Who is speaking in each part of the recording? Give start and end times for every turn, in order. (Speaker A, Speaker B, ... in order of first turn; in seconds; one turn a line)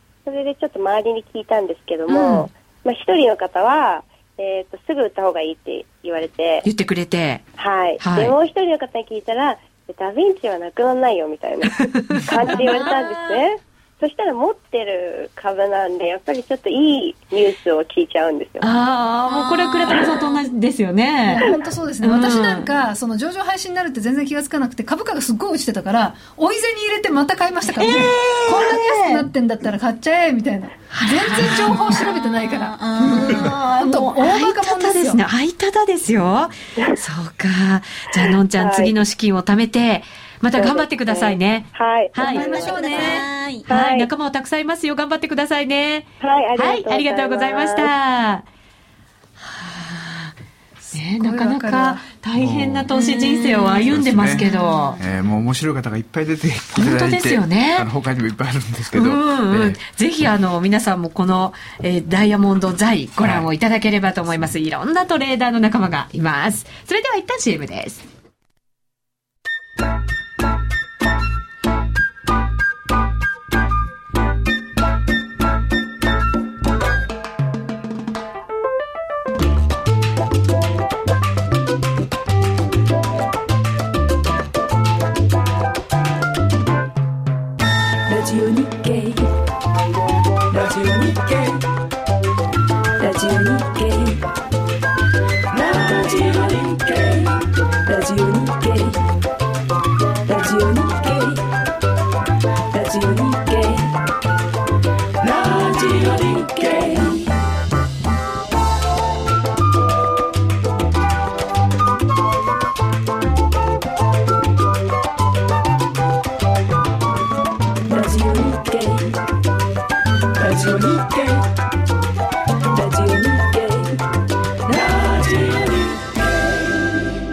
Speaker A: 0.2-6.7
Speaker B: 2.1-2.5
Speaker B: 6.6-7.4
Speaker A: 7.6-18.7
Speaker B: 8.0-8.3
Speaker B: 11.7-13.4
Speaker B: 18.6-21.5
Speaker C: 19.2-20.3
Speaker D: 21.2-35.2
Speaker B: 22.0-22.7
Speaker B: 27.8-29.2
Speaker B: 30.9-32.0
Speaker C: 31.6-34.2
Speaker B: 34.2-48.4
Speaker A: 38.6-38.9
Speaker A: 40.5-43.0
Speaker D: 42.2-43.3
Speaker C: 42.2-43.7
Speaker A: 43.7-44.1
Speaker A: 46.2-47.9
Speaker B: 49.4-50.4
Speaker D: 50.8-52.0
Speaker B: 50.9-55.0
Speaker E: 52.4-52.9
Speaker C: 52.9-53.9
Speaker E: 53.9-54.5
Speaker D: 54.4-55.0
Speaker E: 55.0-59.8
Speaker B: 56.8-57.9
Speaker B: 58.9-68.0
Speaker E: 63.2-63.5
Speaker C: 88.2-89.1
Speaker C: 93.1-94.1
Speaker C: 95.7-96.7
Speaker C: 97.9-98.8
Speaker C: 100.4-101.3
Speaker C: 102.9-103.7
Speaker C: 106.6-107.2
Speaker C: 118.0-119.0
Speaker C: 120.5-121.2
Speaker C: 122.8-123.8